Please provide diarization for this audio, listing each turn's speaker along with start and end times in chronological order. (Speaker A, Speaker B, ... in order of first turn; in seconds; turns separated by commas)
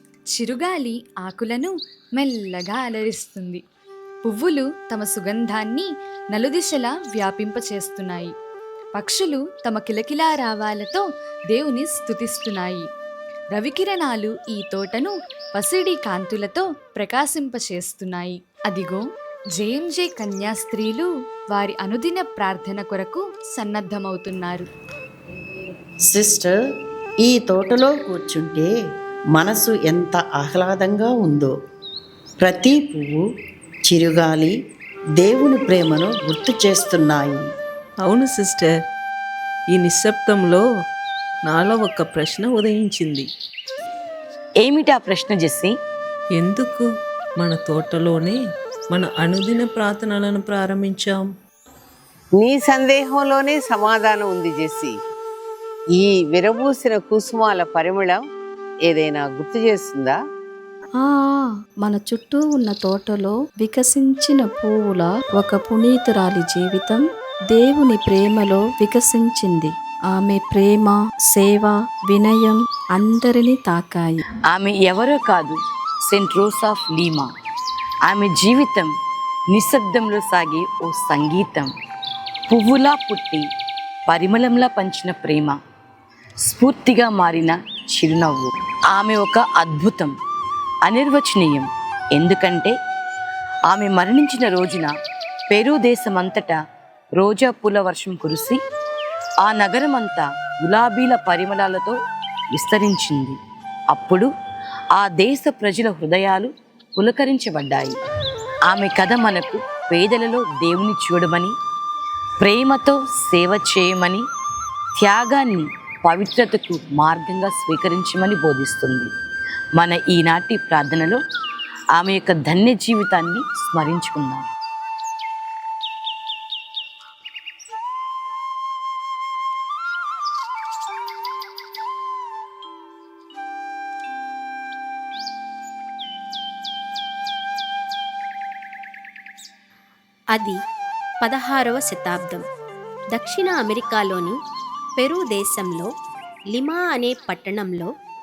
Speaker A: 0.3-3.6, Speaker A: 4.2-8.3, Speaker A: 8.9-12.9, Speaker A: 13.5-24.7, Speaker B: 26.1-26.6, Speaker B: 27.2-28.7, Speaker B: 29.4-31.5, Speaker B: 32.4-33.2, Speaker B: 33.9-34.5, Speaker B: 35.2-37.4, Speaker C: 38.0-38.7, Speaker C: 39.7-40.6, Speaker C: 41.5-43.3, Speaker D: 44.6-45.7, Speaker C: 46.4-46.9, Speaker C: 47.4-48.4, Speaker C: 48.9-51.3, Speaker E: 52.4-55.0, Speaker E: 56.0-58.2, Speaker E: 58.8-60.2, Speaker F: 61.0-74.2, Speaker D: 74.5-77.3, Speaker D: 78.0-78.9, Speaker D: 79.5-81.7, Speaker D: 82.5-83.5, Speaker D: 84.1-85.6, Speaker D: 86.4-90.1, Speaker D: 90.8-92.7, Speaker D: 93.7-94.9, Speaker D: 95.5-96.6, Speaker D: 97.2-98.6, Speaker D: 99.4-102.0, Speaker D: 102.5-103.4, Speaker D: 103.9-104.3, Speaker D: 104.9-108.0, Speaker D: 108.7-111.5, Speaker D: 112.4-114.2, Speaker D: 115.0-119.1, Speaker D: 119.8-121.2, Speaker D: 122.0-124.5, Speaker G: 141.2-142.4, Speaker G: 143.2-144.4, Speaker G: 145.0-145.9, Speaker G: 146.5-147.9